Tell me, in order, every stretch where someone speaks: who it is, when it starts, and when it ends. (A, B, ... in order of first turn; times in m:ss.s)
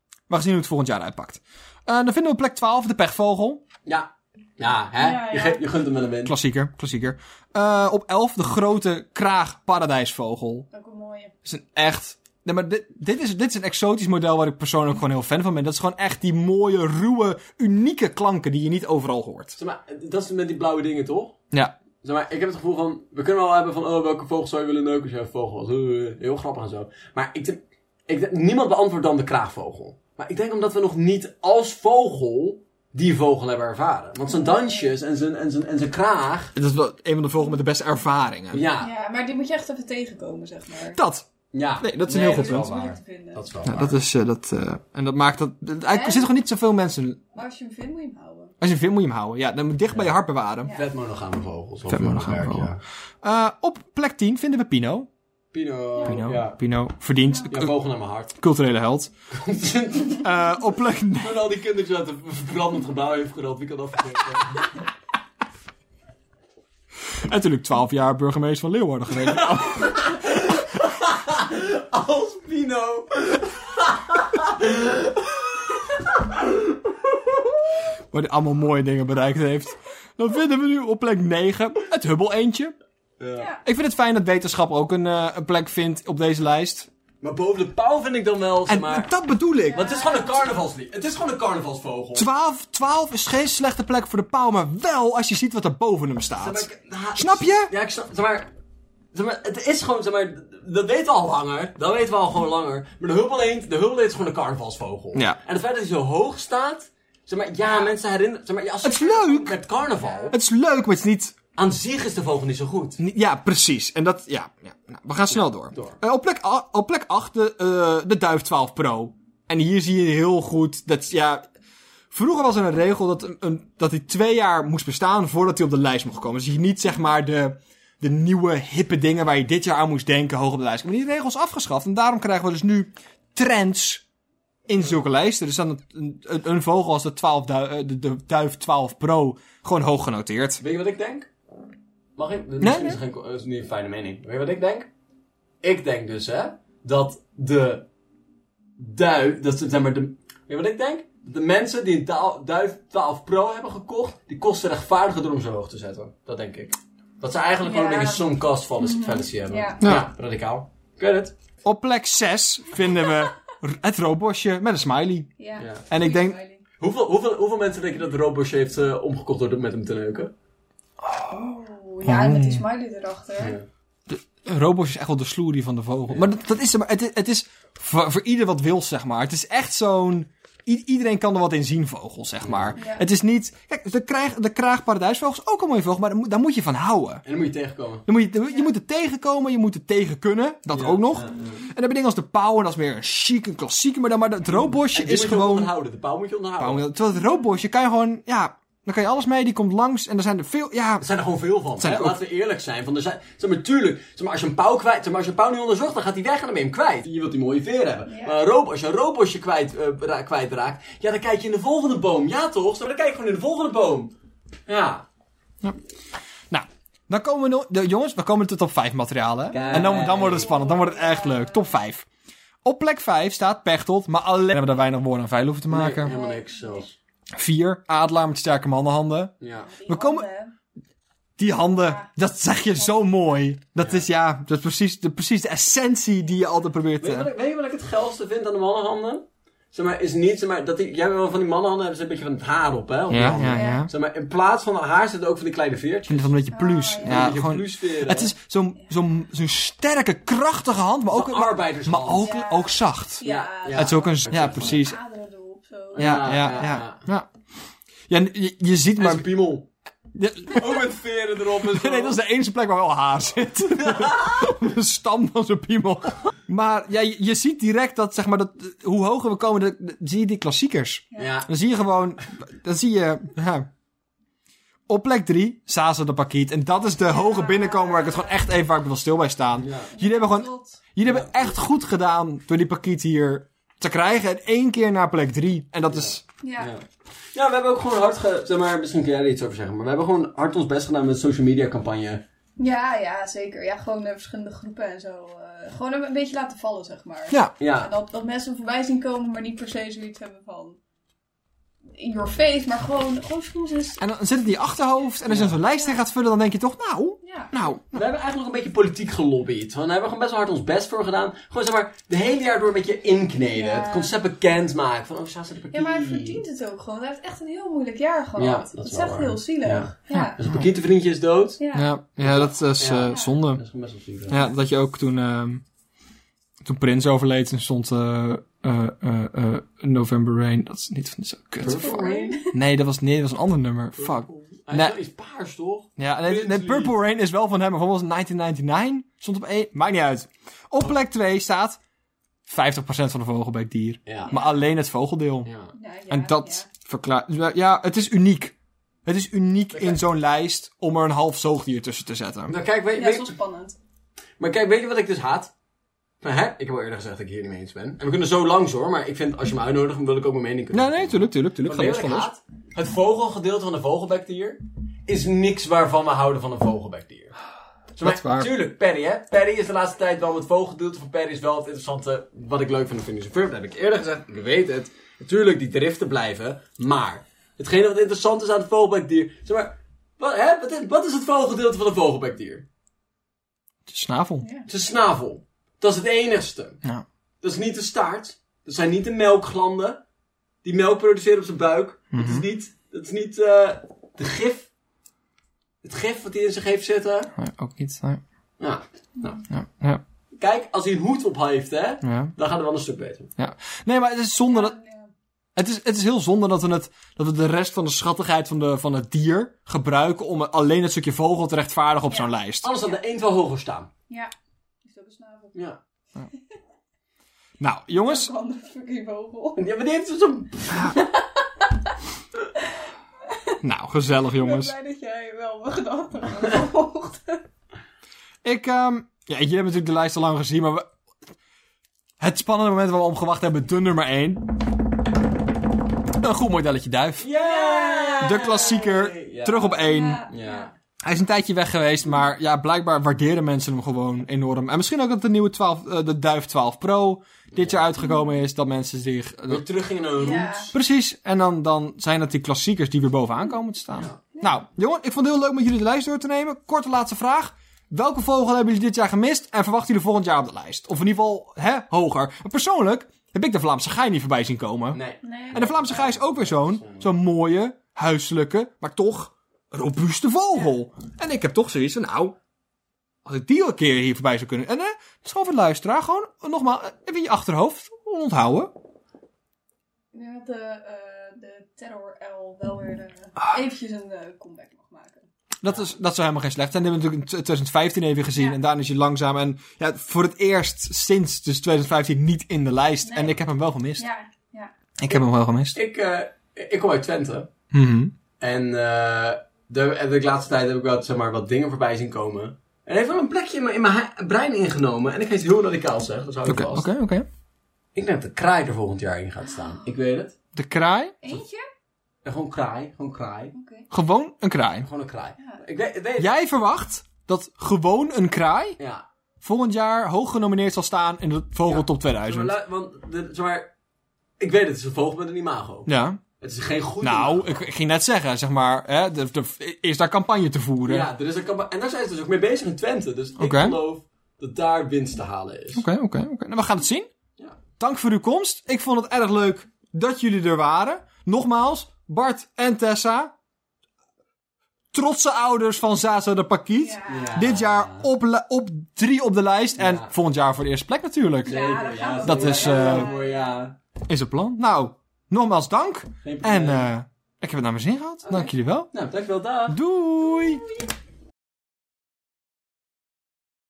0:00.3-0:03.6 A
0:03.8-0:06.3 B
0:05.0-0:05.6 C
0:06.2-0:10.7 A
0:10.7-0:11.3 C
0:11.4-0:19.6 A
0:19.6-0:21.4 B
0:22.0-0:36.5 B
0:34.3-0:34.9 C
0:36.5-0:38.6 A
0:38.5-0:38.9 B
0:38.8-0:41.0 C
0:40.9-0:41.2 A
0:41.5-0:44.0 B
0:41.8-0:42.7 A
0:42.2-0:43.4 C
0:43.6-0:47.2 A
0:45.9-0:46.3 C
0:47.3-0:48.5 C
0:48.6-0:50.7 A
0:50.6-0:50.9 C
0:50.7-0:52.8 B
0:51.9-0:52.7 A
0:53.2-0:55.1 A
0:55.5-0:56.6 B
0:56.0-0:56.2 C
0:56.0-0:57.7 A
0:57.5-0:58.3 B
0:58.3-0:59.1 A
0:59.3-1:00.3 B
1:00.1-1:01.5 A
1:01.2-1:04.7 B
1:07.1-1:10.2 A
1:09.2-1:17.4 B
1:18.1-1:22.7 A
1:23.2-1:23.5 B
1:23.6-1:26.9 A
1:27.2-1:29.1 B
1:28.7-1:29.9 A
1:29.7-1:30.5 C
1:29.7-1:32.3 B
1:32.1-1:37.7 A
1:36.3-1:38.5 B
1:39.1-1:50.4 B
1:48.8-1:49.6 A
1:50.0-1:50.3 C
1:50.3-1:51.4 A
1:51.5-1:53.0 B
1:53.0-2:01.4 A
1:55.3-1:56.0 B
2:02.1-2:14.0 A
2:14.7-2:20.6 A
2:20.6-2:21.3 B
2:22.2-2:24.9 B
2:22.6-2:23.0 A
2:25.6-2:27.9 B
2:28.8-2:41.3 B
2:37.6-2:39.9 C
2:39.8-2:40.1 A
2:41.6-2:45.3 A
2:45.4-2:46.6 C
2:45.6-2:45.8 B
2:45.9-2:46.4 A
2:46.8-2:50.3 B
2:51.0-2:51.5 A
2:51.3-2:53.6 C
2:52.0-2:52.6 A
2:53.4-2:53.6 B
2:54.1-3:07.2 A
3:02.4-3:02.8 B
3:02.8-3:03.0 C
3:07.2-3:08.1 B
3:08.0-3:15.7 A
3:10.7-3:11.6 B
3:14.5-3:16.8 B
3:16.6-3:21.0 A
3:21.0-3:34.1 B
3:21.8-3:22.2 A
3:28.1-3:28.4 C
3:34.7-3:35.0 B
3:36.5-3:42.0 A
3:39.5-3:40.5 B
3:39.5-3:41.7 C
3:42.6-3:46.1 A
3:45.7-3:47.0 B
3:46.0-3:46.8 C
3:47.3-3:50.3 A
3:49.4-3:49.7 B
3:49.7-3:50.5 C
3:51.4-3:57.3 A
3:51.8-3:52.1 C
3:52.7-3:53.2 C
3:53.8-3:54.0 B
3:57.0-4:06.4 B
4:03.1-4:03.9 A
4:03.3-4:03.9 C
4:06.1-4:15.0 A
4:06.5-4:07.3 C
4:07.0-4:08.3 B
4:11.1-4:12.3 B
4:12.1-4:16.5 C
4:13.2-4:14.8 B
4:15.9-4:17.0 B
4:16.0-4:17.3 A
4:18.1-4:19.3 A
4:19.0-4:19.7 B
4:20.1-4:20.9 A
4:20.5-4:22.2 B
4:21.5-4:33.7 A
4:23.8-4:24.6 B
4:31.1-4:31.4 C
4:31.2-4:31.5 B
4:34.9-4:46.2 A
4:37.0-4:38.4 C
4:39.6-4:39.9 B
4:39.9-4:40.8 C
4:41.0-4:41.4 B
4:45.9-4:52.2 B
4:46.4-4:46.7 C
4:52.6-5:00.8 C
4:57.6-4:57.9 B
5:01.9-5:04.0 C
5:04.0-5:08.0 A
5:05.3-5:05.6 B
5:07.2-5:07.5 C
5:07.9-5:16.4 B
5:13.5-5:14.1 C
5:15.7-5:20.4 C
5:18.4-5:21.6 B
5:20.1-5:20.6 A
5:21.6-5:21.9 C
5:21.7-5:23.6 A
5:22.2-5:24.4 B
5:23.1-5:23.3 C
5:24.3-5:25.6 A
5:26.6-5:34.9 A
5:31.6-5:32.4 B
5:31.7-5:32.5 C
5:34.0-5:36.9 B
5:36.0-5:41.8 A
5:42.4-5:45.5 A
5:44.0-5:44.3 B
5:44.3-5:44.6 C
5:45.4-5:45.7 B
5:45.7-5:46.7 C
5:46.1-5:48.5 A
5:49.0-5:52.5 A
5:49.7-5:50.0 B
5:52.5-5:53.3 B
5:53.0-5:53.8 C
5:54.4-5:55.5 B
5:56.2-6:07.4 B
6:00.7-6:02.3 A
6:08.0-6:22.6 B
6:08.0-6:08.5 A
6:23.9-6:24.5 A
6:24.4-6:24.7 C
6:24.7-6:26.8 B
6:27.4-6:30.0 B
6:30.6-6:34.7 B
6:32.1-6:32.4 A
6:35.8-6:37.3 B
6:37.4-6:38.2 A
6:38.6-6:39.4 B
6:39.5-6:40.0 A
6:40.4-6:43.3 B
6:42.0-6:42.3 A
6:43.4-6:44.7 A
6:44.4-6:45.1 C
6:45.6-6:52.7 A
6:52.1-6:52.9 C
6:52.6-6:53.9 B
6:54.8-6:55.6 C
6:55.5-6:55.8 B
6:57.6-6:58.3 A
6:58.0-6:59.7 C
6:59.6-7:01.0 B
7:03.3-7:03.6 C
7:03.6-7:04.7 A
7:04.2-7:07.4 C
7:08.4-7:10.9 A
7:12.2-7:14.5 A
7:16.2-7:17.3 A
7:17.2-7:20.7 B
7:17.4-7:18.7 C
7:18.2-7:20.3 A
7:19.8-7:20.7 C
7:21.0-7:29.6 A
7:27.5-7:27.8 B
7:29.5-7:30.7 B
7:30.2-7:30.7 C
7:30.7-7:45.0 A
7:44.9-7:47.1 B
7:45.2-7:45.7 C
7:45.5-7:52.4 A
7:53.2-7:58.7 A
8:00.1-8:05.3 C
8:05.6-8:14.1 A
8:13.0-8:13.4 C
8:14.0-8:14.7 C
8:15.0-8:15.8 A
8:15.7-8:17.5 B
8:17.7-8:18.1 A
8:18.4-8:26.9 B
8:26.4-8:27.2 A
8:27.9-8:30.3 B
8:29.5-8:29.9 C
8:30.5-8:31.2 A
8:31.2-8:31.7 C
8:32.2-8:33.5 B
8:33.5-8:33.9 C
8:33.9-8:34.9 A
8:34.8-8:36.3 B
8:36.2-8:38.8 A
8:38.8-8:39.0 B
8:39.4-8:42.5 A
8:41.6-8:43.7 B
8:44.4-8:47.7 B
8:45.9-8:46.2 A
8:47.0-8:51.1 A
8:50.8-8:55.8 B
8:53.4-8:53.8 A
8:55.7-8:57.1 A
8:57.8-9:03.3 A
9:04.9-9:11.6 A
9:06.8-9:07.4 C
9:07.0-9:08.1 B
9:09.8-9:10.1 B
9:11.4-9:13.6 C
9:11.4-9:13.8 B
9:12.2-9:13.1 A
9:14.1-9:18.9 A
9:16.2-9:16.9 B
9:18.3-9:19.8 B
9:19.7-9:20.6 A